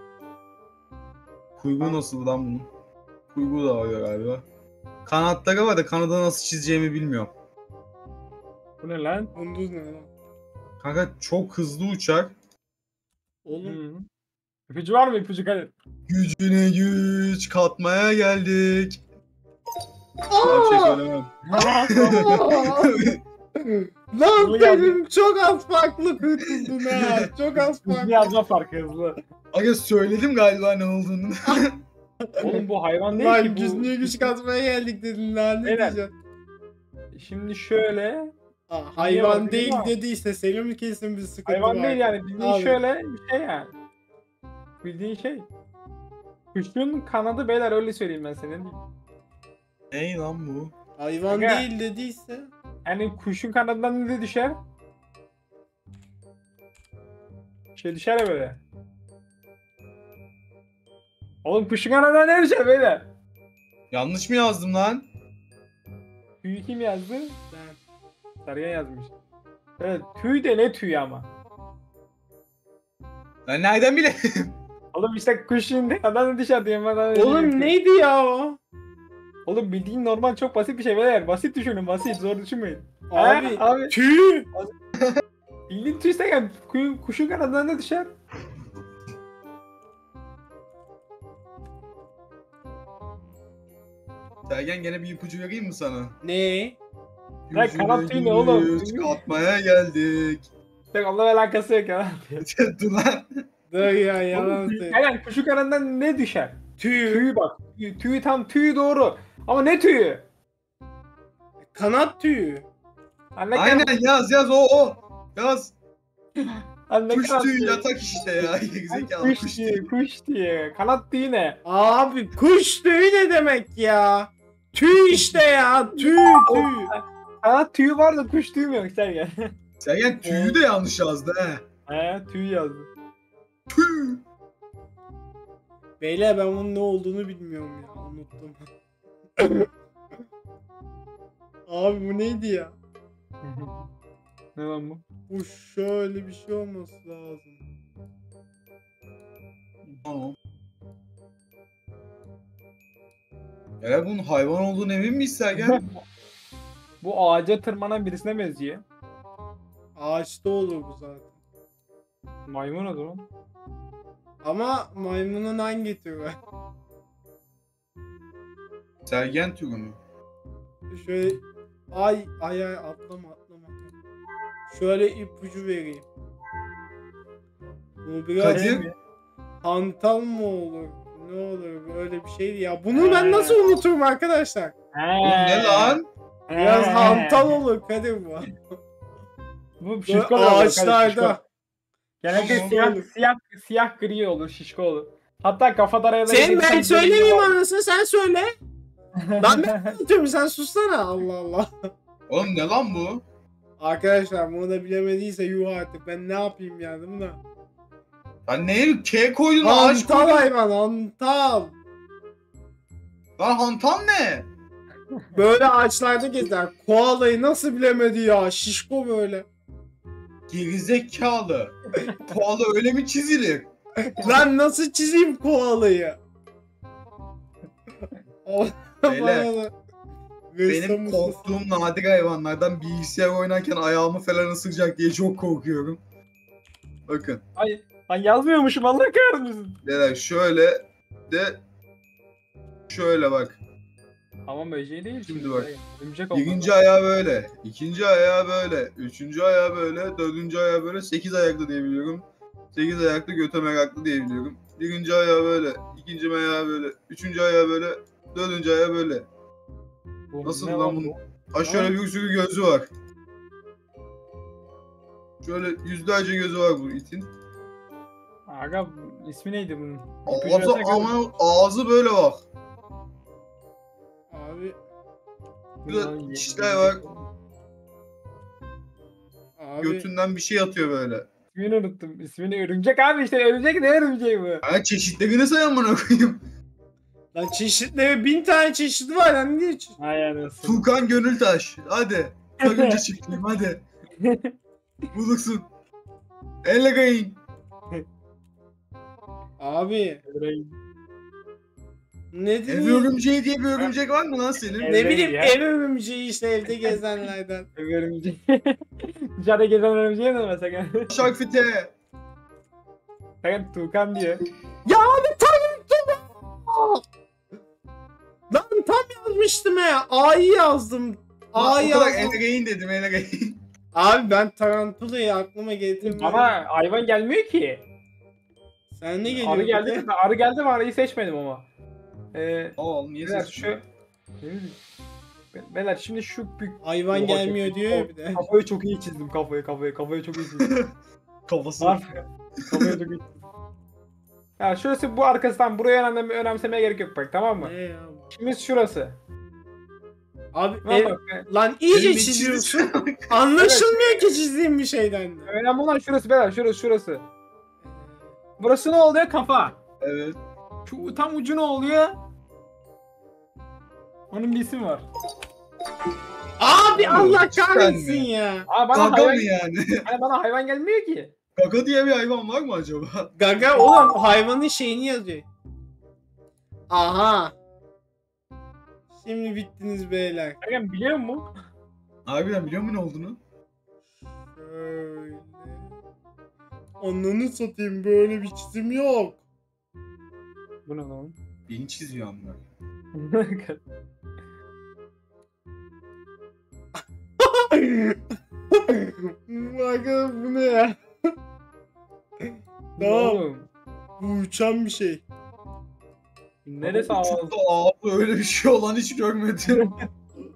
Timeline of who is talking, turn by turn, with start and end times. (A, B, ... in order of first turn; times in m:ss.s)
0:01.6-0:02.7 A
0:03.3-0:04.4 A
0:05.0-0:07.3 A
0:08.8-0:09.3 B
0:09.3-0:10.1 C
0:10.8-0:12.3 A
0:13.4-0:13.8 C
0:13.6-0:14.0 B
0:14.7-0:15.7 B
0:16.1-0:19.0 A
0:20.3-0:21.0 C
0:20.4-0:23.2 A
0:21.4-0:22.4 B
0:22.1-0:22.9 C
0:23.6-0:28.3 C
0:24.4-0:25.0 B
0:26.9-0:27.2 A
0:27.7-0:29.2 B
0:29.5-0:31.8 A
0:32.3-0:36.1 C
0:32.4-0:34.3 B
0:35.6-0:36.0 B
0:37.1-0:38.3 B
0:38.7-0:42.8 C
0:39.0-0:39.9 B
0:41.4-0:43.7 B
0:44.8-0:45.5 B
0:46.5-0:48.8 B
0:49.9-0:50.7 A
0:51.0-0:52.5 C
0:51.3-0:51.7 B
0:52.8-0:54.6 B
0:57.7-0:58.6 B
1:01.4-1:03.1 B
1:03.9-1:05.0 A
1:06.4-1:07.4 B
1:07.5-1:07.8 C
1:08.4-1:09.1 B
1:09.8-1:11.3 B
1:13.5-1:14.5 A
1:14.9-1:17.8 B
1:17.1-1:18.6 C
1:19.4-1:24.0 B
1:23.1-1:24.5 C
1:25.7-1:28.1 B
1:34.5-1:36.1 A
1:36.2-1:36.8 C
1:37.5-1:40.5 A
1:37.5-1:39.2 B
1:40.9-1:42.5 B
1:42.4-1:43.3 A
1:43.7-1:45.0 C
1:44.3-1:50.2 B
1:46.8-1:47.3 C
1:51.7-1:52.6 C
1:53.4-1:53.9 B
1:53.5-1:55.7 A
1:56.4-2:01.6 B
1:57.1-1:59.9 A
2:01.6-2:06.9 C
2:05.1-2:05.4 B
2:05.9-2:09.5 B
2:09.8-2:11.6 A
2:11.9-2:12.9 B
2:13.7-2:14.2 A
2:16.0-2:18.6 C
2:19.4-2:19.7 C
2:21.7-2:22.7 C
2:23.4-2:23.9 B
2:24.6-2:25.0 B
2:25.3-2:27.6 C
2:30.0-2:30.4 A
2:33.8-2:35.8 A
2:35.6-2:36.0 B
2:37.0-2:38.8 B
2:40.0-2:41.3 C
2:42.5-2:43.3 B
2:44.4-2:46.4 C
2:49.0-2:50.0 A
2:50.9-2:51.4 C
2:51.9-2:53.9 C
2:54.7-2:56.0 C
2:58.0-2:58.8 C
2:58.4-2:58.8 A
2:58.5-2:58.9 B
2:59.6-3:04.7 C
3:02.9-3:03.7 B
3:04.9-3:07.6 B
3:05.2-3:06.1 A
3:06.5-3:08.5 C
3:09.8-3:11.4 B
3:10.1-3:11.4 C
3:12.2-3:17.6 B
3:12.3-3:13.0 C
3:12.3-3:12.7 A
3:16.3-3:18.5 C
3:19.2-3:20.0 B
3:19.4-3:21.7 C
3:22.3-3:23.2 A
3:23.8-3:27.4 C
3:28.5-3:30.5 A
3:29.6-3:31.8 C
3:33.4-3:34.5 A
3:35.3-3:39.4 C
3:40.5-3:43.7 A
3:44.2-3:46.2 C
3:48.4-3:49.7 C
3:49.1-3:49.5 A
3:50.5-3:51.5 C
3:50.6-3:56.0 A
3:57.1-3:57.4 A
3:57.6-3:59.8 B
3:59.8-4:01.6 A
4:02.9-4:03.6 A
4:04.4-4:06.8 B
4:05.2-4:05.7 A
4:06.3-4:19.3 A
4:20.3-4:21.9 B
4:20.4-4:22.9 A
4:25.4-4:27.3 A
4:28.5-4:31.2 B
4:30.3-4:32.4 A
4:34.3-4:34.8 C
4:35.8-4:37.3 B
4:35.9-4:37.0 A
4:39.6-4:40.1 C
4:39.8-4:41.3 A
4:41.5-4:44.6 B
4:44.6-4:46.4 A
4:47.3-4:50.0 C
4:50.0-4:50.9 B
4:50.6-4:53.8 A
4:52.6-4:53.0 B
4:54.2-4:54.5 B
4:55.1-4:55.6 A
4:56.6-4:57.4 A
4:59.6-5:00.2 C
5:00.2-5:00.8 B
5:02.3-5:03.1 C
5:02.7-5:04.9 A
5:04.8-5:05.6 B
5:04.8-5:07.7 C
5:06.7-5:07.0 B
5:07.8-5:11.2 B
5:11.1-5:11.9 A
5:13.4-5:14.4 B
5:14.8-5:17.0 C
5:18.5-5:22.4 C
5:21.5-5:23.6 A
5:23.9-5:26.6 C
5:26.0-5:27.9 B
5:28.9-5:30.0 C
5:29.3-5:31.7 B
5:32.3-5:33.8 B
5:32.8-5:33.7 A
5:34.4-5:34.8 B
5:35.5-5:40.7 B
5:36.8-5:38.4 C
5:40.6-5:40.9 A
5:41.5-5:42.0 A
5:41.8-5:43.4 B
5:44.6-5:47.7 B
5:47.6-5:48.3 C
5:48.3-5:49.2 B
5:50.5-5:55.5 C
5:50.8-5:51.5 B
5:51.9-5:53.4 A
5:53.6-5:54.4 B
5:55.4-5:57.2 B
5:57.8-5:58.3 C
5:58.6-5:59.8 B
6:00.0-6:00.4 A
6:00.8-6:02.2 B
6:04.3-6:05.0 B
6:06.6-6:08.7 C
6:06.9-6:08.3 A
6:08.7-6:11.3 B
6:08.9-6:10.0 A
6:11.6-6:13.3 A
6:13.4-6:15.4 C
6:13.7-6:14.1 B
6:16.9-6:17.5 C
6:19.1-6:20.6 C
6:20.6-6:21.5 B
6:22.2-6:23.4 A
6:24.5-6:25.9 C
6:27.0-6:29.4 C
6:30.8-6:31.3 B
6:31.7-6:32.6 A
6:33.1-6:33.8 B
6:37.4-6:38.2 C
6:38.9-6:41.0 C
6:43.0-6:43.7 B
6:43.0-6:43.4 C
6:44.2-6:45.2 C
6:46.6-6:47.6 B
6:46.8-6:49.9 A
6:49.7-6:50.0 B